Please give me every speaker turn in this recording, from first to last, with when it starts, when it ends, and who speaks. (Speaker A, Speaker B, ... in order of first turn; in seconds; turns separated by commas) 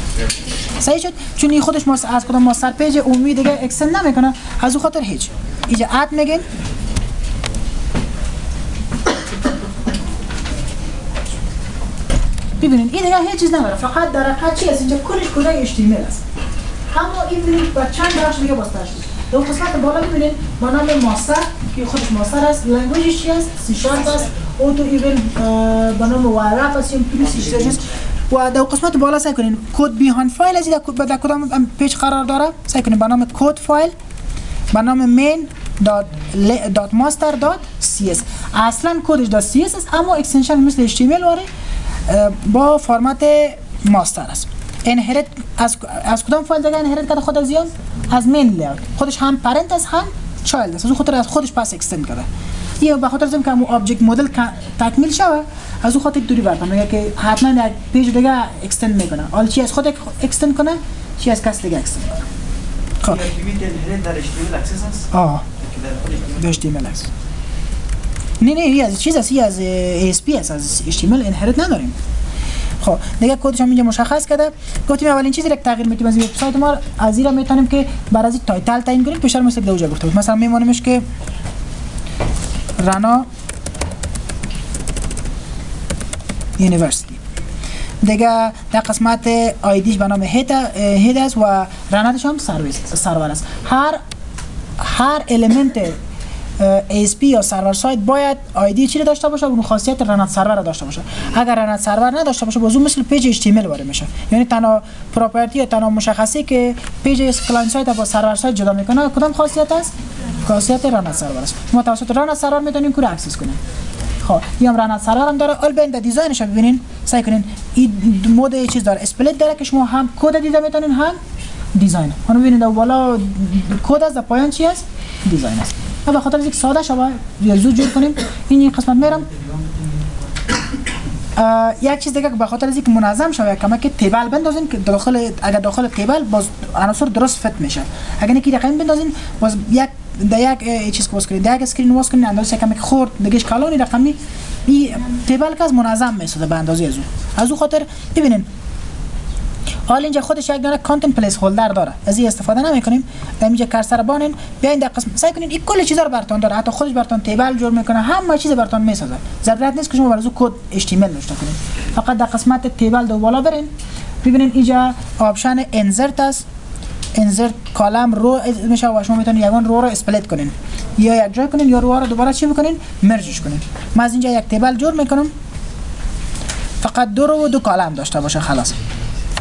Speaker A: 0.8-6.5, Speaker A: 12.6-16.2, Speaker A: 16.9-33.9, Speaker B: 27.3-27.8, Speaker A: 34.7-41.5, Speaker A: 42.1-52.3, Speaker A: 52.8-62.2, Speaker B: 63.0-66.5, Speaker A: 65.1-65.4, Speaker A: 66.4-67.1, Speaker A: 68.4-72.0, Speaker A: 72.8-81.0, Speaker A: 82.8-83.3, Speaker A: 86.6-87.2, Speaker A: 88.0-94.0, Speaker A: 94.8-96.0, Speaker A: 96.6-113.6, Speaker A: 114.2-121.2, Speaker A: 121.7-129.3, Speaker B: 129.3-129.8, Speaker A: 131.3-148.5, Speaker A: 149.9-163.7, Speaker A: 164.2-166.4, Speaker A: 167.1-175.3, Speaker A: 176.8-178.8